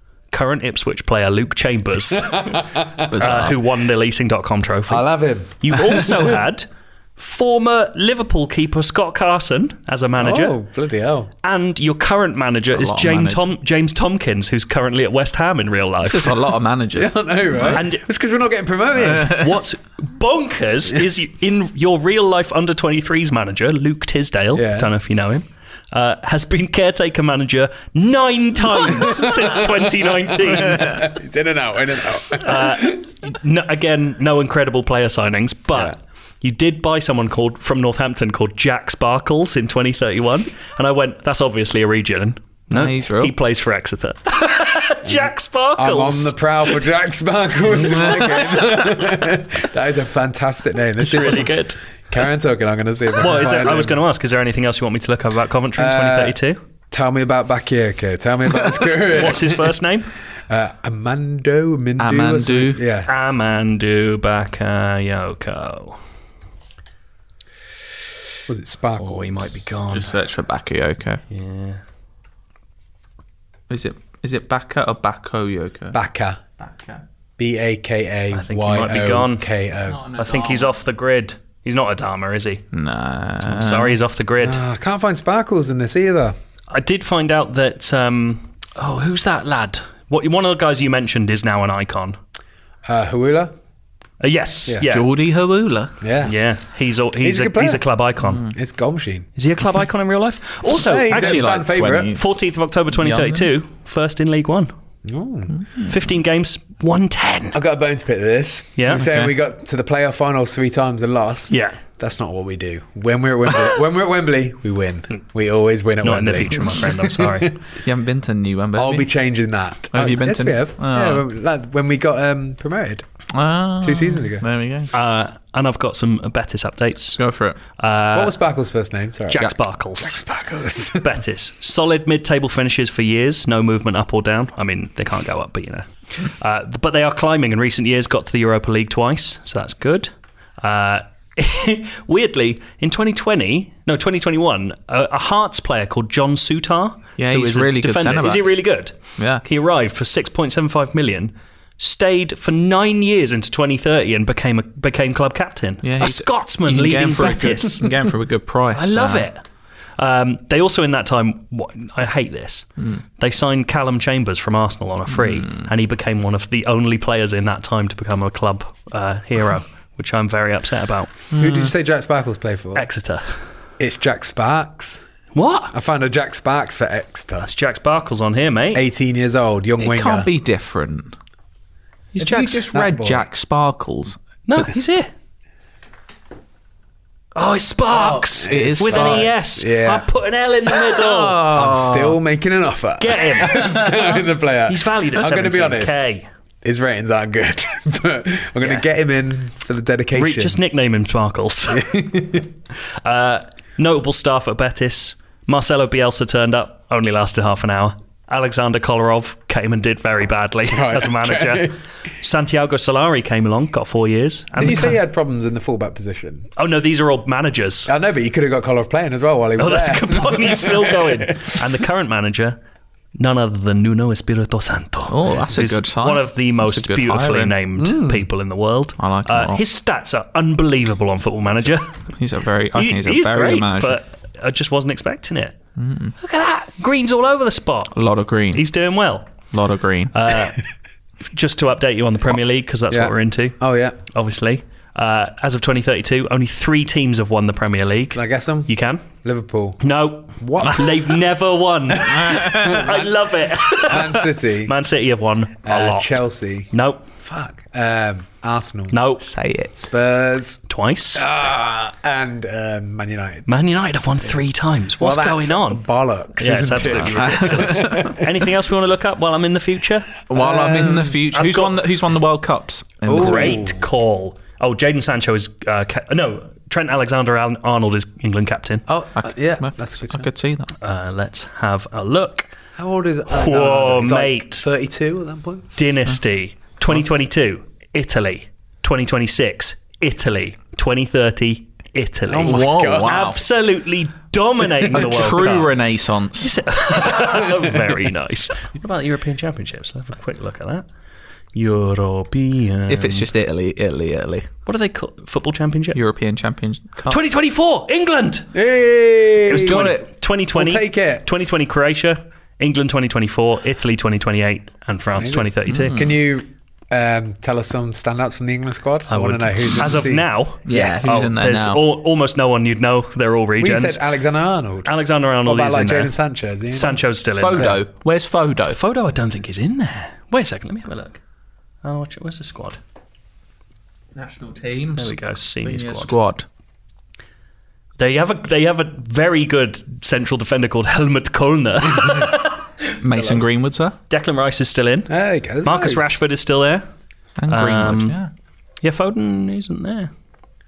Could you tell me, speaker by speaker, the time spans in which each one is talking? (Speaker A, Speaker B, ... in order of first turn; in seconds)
Speaker A: 0.3-2.6, 3.2-5.1, 5.6-10.6, 11.4-16.4, 17.7-18.0, 19.2-30.9, 32.4-46.4, 48.1-48.4, 51.0-51.8, 53.2-56.6, 59.2-60.1, 63.1-66.0, 69.0-70.1, 71.3-71.8, 78.3-79.5, 80.2-82.6, 83.5-84.6, 86.7-92.2, 94.2-95.0, 96.3-98.4, 99.4-101.4, 102.2-104.7, 105.9-107.6, 108.8-109.2, 111.5-111.8, 116.0-117.5, 124.9-127.2, 127.8-128.4, 129.3-130.2, 130.9-158.0, 158.7-159.4, 160.0-162.7, 163.2-171.2, 172.8-173.2, 175.3-175.7, 177.4-178.8, 182.2-182.7, 184.5-185.1, 187.3-191.5, 193.0-196.3, 200.2-201.9, 203.0-215.0, 216.6-217.9, 219.6-222.6, 223.2-232.0, 232.7-235.6, 236.2-238.0, 238.5-239.5, 240.1-240.6, 241.3-243.6, 244.1-249.1, 249.8-257.0, 258.9-259.3, 260.7-261.3, 263.5-265.8, 266.4-270.2, 271.3-271.8, 273.1-278.9, 280.8-282.5, 283.3-284.7, 285.8-295.8, 296.4-300.9, 301.6-303.3, 304.7-306.0, 307.1-308.5, 309.5-316.0, 319.1-324.0, 324.9-326.1, 326.7-327.8, 328.7-331.2, 331.8-332.8, 335.0-336.2, 338.0-342.9, 344.1-345.1, 345.6-346.9, 347.5-348.2, 348.8-350.1
Speaker B: 2.3-3.1, 4.9-5.8, 10.2-11.3, 17.0-19.4, 24.6-24.9, 29.0-33.0, 45.0-54.0, 55.8-56.4, 56.9-59.6, 60.5-63.1, 68.5-69.8, 75.9-76.4, 77.4-80.0, 84.4-86.3, 92.9-93.5, 96.0-96.3, 97.2-97.8, 98.5-99.3, 100.8-102.2, 105.0-105.5, 107.5-117.5, 118.8-123.0, 123.8-124.4, 128.1-129.5, 130.0-131.1, 171.4-172.9, 173.8-175.0, 175.7-177.5, 178.7-180.3, 182.7-183.2, 188.0-190.1, 191.5-196.0, 196.6-200.6, 201.7-202.5, 210.7-211.8, 214.6-216.5, 217.9-221.6, 227.8-228.3, 242.9-244.0, 248.1-248.7, 249.2-249.8, 250.4-251.1, 252.1-253.1, 253.8-254.7, 255.6-256.7, 257.2-259.0, 259.8-260.6, 261.2-263.5, 265.0-268.2, 270.4-271.1, 273.1-273.8, 278.9-280.3, 282.8-285.7, 292.3-293.3, 294.9-295.3, 308.5-310.0, 310.5-311.3, 315.1-320.3, 323.6-324.9, 325.4-327.0, 345.1-346.1
Speaker C: 3.1-3.6, 12.7-13.4, 16.0-17.8, 19.0-19.5, 30.7-30.9, 42.7-43.3, 62.0-62.8, 69.9-71.2, 73.7-76.0, 76.6-77.0, 79.8-80.8, 82.7-84.0, 94.9-95.9, 98.2-98.5, 101.1-102.3, 102.9-103.5, 105.6-106.0, 116.5-116.9, 117.8-119.0, 119.9-121.2, 123.3-124.9, 127.2-127.6, 147.2-148.5, 149.2-149.4, 155.8-159.3, 165.1-165.7, 171.3-171.7, 179.8-181.2, 182.2-184.2, 188.4-189.3, 191.0-192.2, 225.1-227.6, 229.0-229.6, 232.2-234.0, 235.8-236.1, 237.9-238.6, 239.5-240.1, 252.1-252.8, 259.2-259.9, 266.8-268.2, 270.3-273.7, 279.2-280.7, 292.4-293.4, 294.9-296.6, 302.9-304.5, 305.9-307.2, 309.6-310.1, 315.7-316.1, 320.7-321.8, 327.4-328.8, 334.1-336.5, 343.0-344.0, 347.4-348.3